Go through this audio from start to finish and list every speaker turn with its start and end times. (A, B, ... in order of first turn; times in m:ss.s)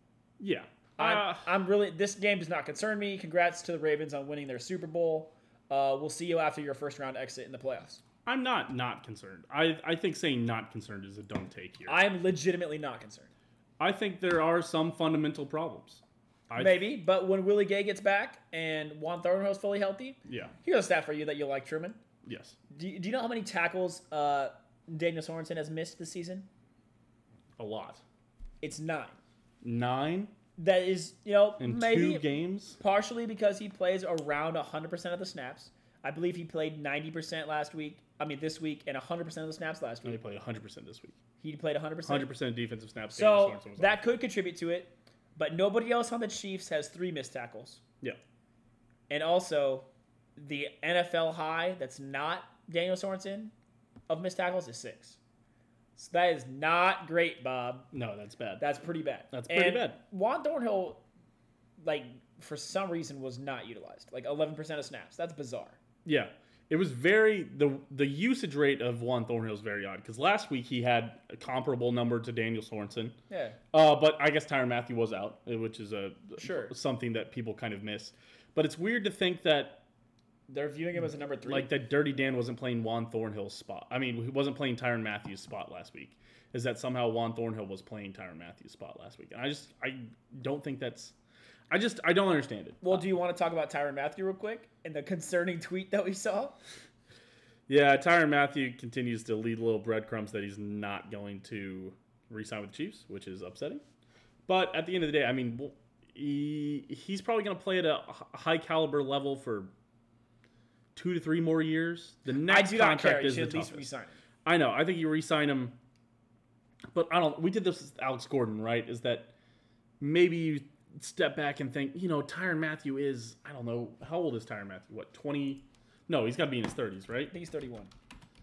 0:00.4-0:01.4 A
0:01.0-0:08.0 B
0:08.2-0:12.0 A
0:11.9-0:13.3 B
0:13.8-0:16.8 A
0:16.6-0:22.0 B
0:20.2-0:20.5 A
0:22.2-0:22.6 A
0:22.7-0:26.5 B
0:27.6-0:28.0 A
0:28.6-0:29.2 B
0:29.6-0:30.3 A
0:30.6-0:40.2 B
0:31.6-0:32.8 A
0:40.0-0:41.2 A
0:41.4-0:42.3 B
0:42.0-0:44.0 A
0:43.1-0:47.8 B
0:49.1-0:53.5 B
0:54.1-0:55.2 B
0:56.0-0:57.9 B
0:57.9-0:58.6 A
0:58.6-1:01.0 B
0:59.3-1:00.0 A
1:01.8-1:05.8 B
1:06.0-1:13.2 A
1:13.3-1:13.6 B
1:13.7-1:19.8 A
1:16.4-1:16.7 B
1:20.5-1:21.7 B
1:21.4-1:31.1 A
1:31.7-1:33.0 A
1:32.8-1:36.6 B
1:37.7-1:43.8 A
1:44.5-1:49.7 A
1:50.9-1:53.9 A
1:52.4-1:54.2 B
1:54.4-1:55.8 A
1:56.9-1:59.3 A
2:00.0-2:07.3 A
2:07.3-2:07.9 B